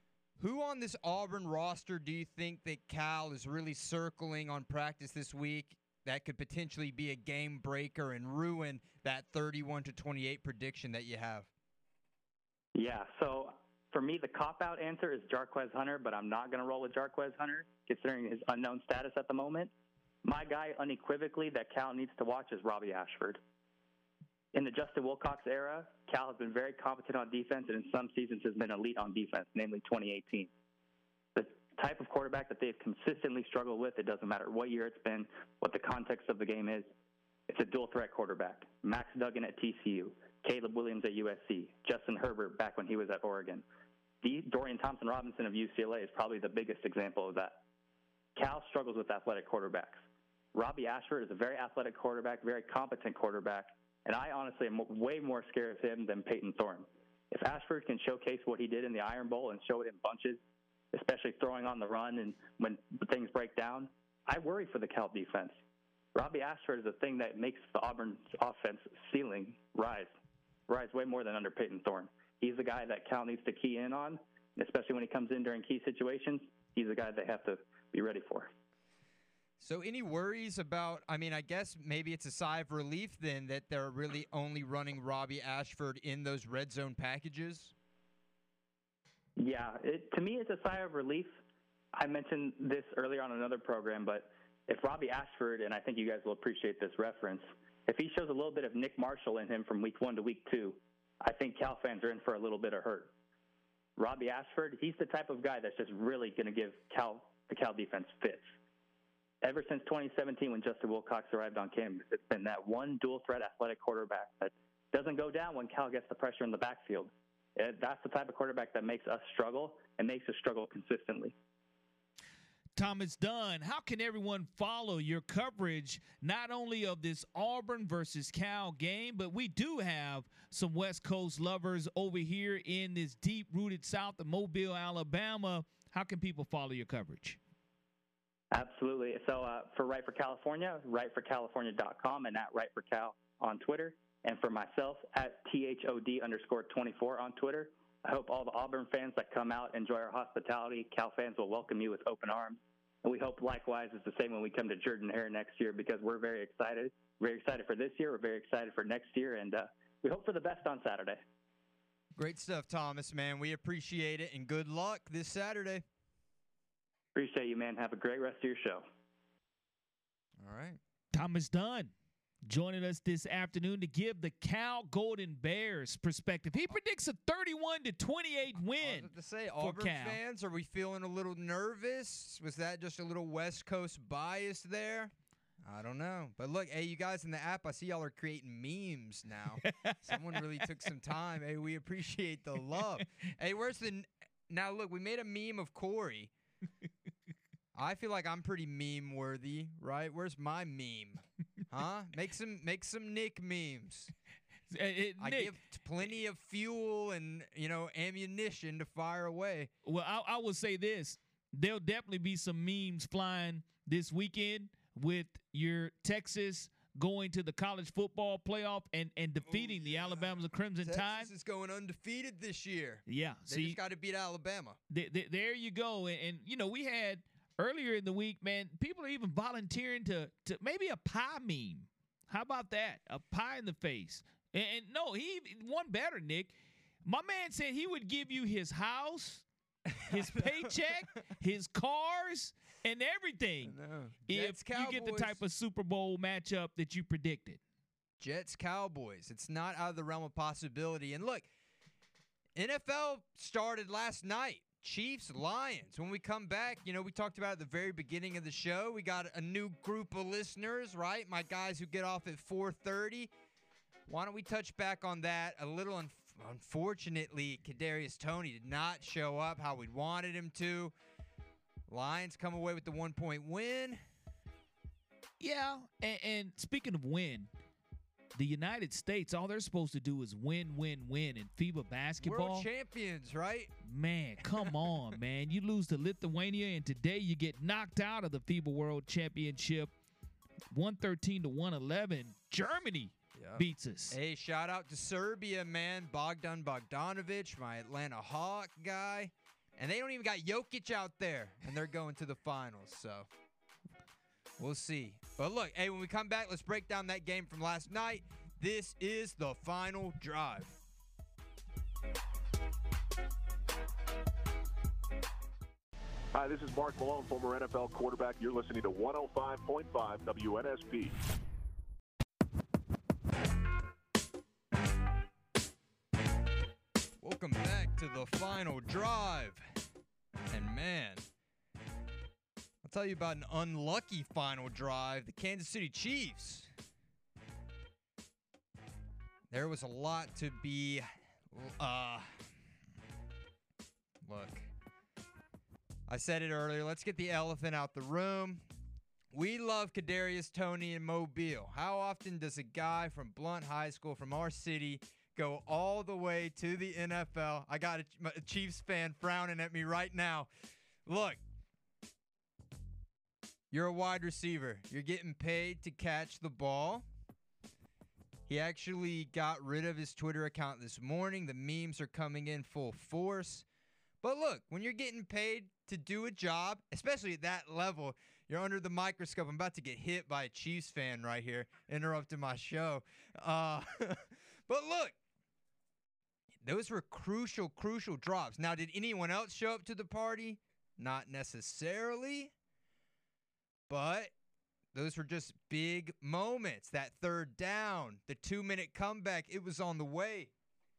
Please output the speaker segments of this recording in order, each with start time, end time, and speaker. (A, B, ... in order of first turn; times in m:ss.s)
0:00.4-0:11.5 A
0:12.8-0:19.7 B
0:20.2-0:23.4 B
0:24.5-0:30.5 B
0:31.4-0:36.9 B
0:37.5-0:43.6 B
0:44.2-0:47.6 B
0:48.4-0:50.0 B
0:50.6-1:00.4 B
1:00.9-1:05.6 B
1:06.2-1:10.1 B
1:10.7-1:18.5 B
1:19.6-1:27.7 A
1:29.4-1:31.4 B
1:32.0-1:43.1 B
1:44.0-1:48.5 B
1:49.4-2:01.3 B
2:02.8-2:17.4 C
2:18.5-2:41.2 B
2:42.2-2:45.8 A
2:47.2-2:48.9 B
2:50.4-2:50.8 A
2:51.1-2:51.9 C
2:52.5-3:00.2 C
2:58.8-3:05.1 A
3:05.6-3:16.3 A
3:09.7-3:10.6 C
3:17.7-3:24.1 A
3:24.7-3:25.5 C
3:25.2-3:29.7 A
3:29.8-3:41.3 C
3:39.4-3:44.8 A
3:43.1-3:43.8 C
3:44.9-3:59.4 C
3:59.9-4:01.2 A
4:00.1-4:03.8 C
4:03.6-4:05.4 A
4:04.3-4:07.6 C
4:08.2-4:11.5 A
4:12.6-4:23.3 A
4:24.1-4:30.9 A
4:31.9-4:34.0 A
4:35.4-4:37.5 C
4:38.4-4:42.7 C
4:42.2-4:43.7 A
4:43.8-4:49.9 C
4:50.7-4:54.2 C
4:53.3-5:03.3 A
5:04.6-5:10.8 A
5:16.3-5:21.2 D
5:27.2-5:29.6 A
5:30.5-5:31.3 A
5:32.8-5:36.7 A
5:39.5-5:42.5 A
5:44.2-5:44.7 A
5:46.1-5:48.6 A
5:49.3-6:00.5 A
6:01.1-6:01.4 A
6:03.7-6:07.1 A
6:08.5-6:13.6 A
6:14.2-6:25.2 A
6:26.6-6:32.5 A
6:33.9-6:34.3 A
6:34.9-6:40.5 A